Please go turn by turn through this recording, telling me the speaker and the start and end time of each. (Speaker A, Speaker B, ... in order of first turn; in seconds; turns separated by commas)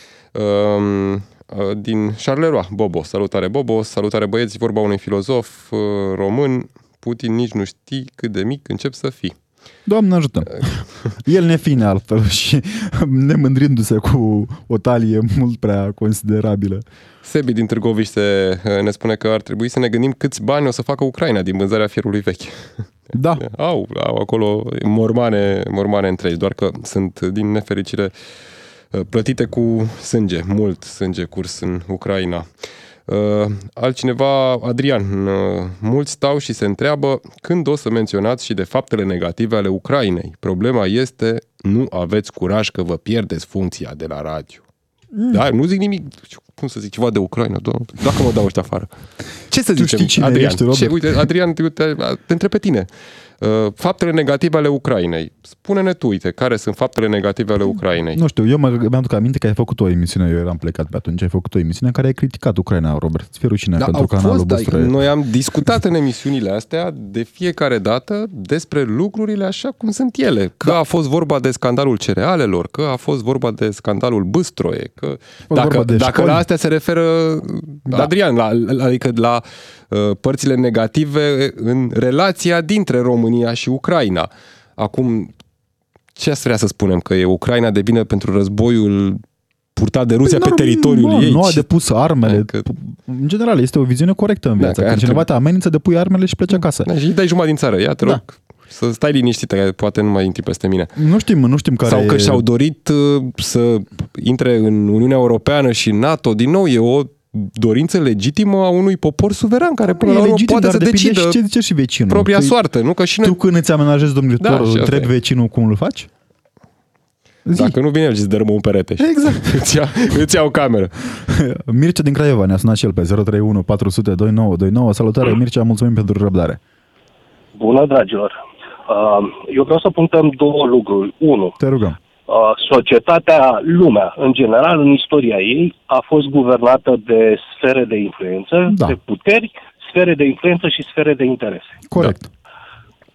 Speaker A: 0.3-9.4, Speaker B: 9.9-16.8, Speaker A: 17.2-22.8, Speaker B: 23.1-23.4, Speaker A: 23.4-28.1, Speaker A: 28.9-32.5, Speaker A: 33.1-44.6, Speaker B: 45.1-45.4, Speaker A: 45.3-48.9, Speaker A: 49.5-52.9, Speaker B: 49.8-51.2, Speaker A: 53.4-58.2, Speaker B: 58.1-65.0, Speaker A: 63.8-85.3, Speaker B: 75.5-76.4, Speaker A: 86.2-89.2, Speaker A: 89.8-91.7, Speaker B: 90.2-96.9, Speaker A: 92.2-92.7, Speaker A: 94.6-95.2, Speaker A: 96.5-100.9, Speaker B: 101.0-102.4, Speaker A: 101.8-111.4, Speaker B: 109.9-112.6, Speaker A: 112.1-113.4, Speaker B: 113.2-116.1, Speaker A: 114.4-115.1, Speaker B: 117.5-117.8, Speaker A: 117.5-121.0, Speaker B: 119.0-119.6, Speaker B: 121.2-126.6, Speaker C: 127.5-131.6, Speaker B: 131.6-132.0, Speaker C: 132.3-141.8, Speaker B: 138.7-139.0, Speaker B: 141.9-142.3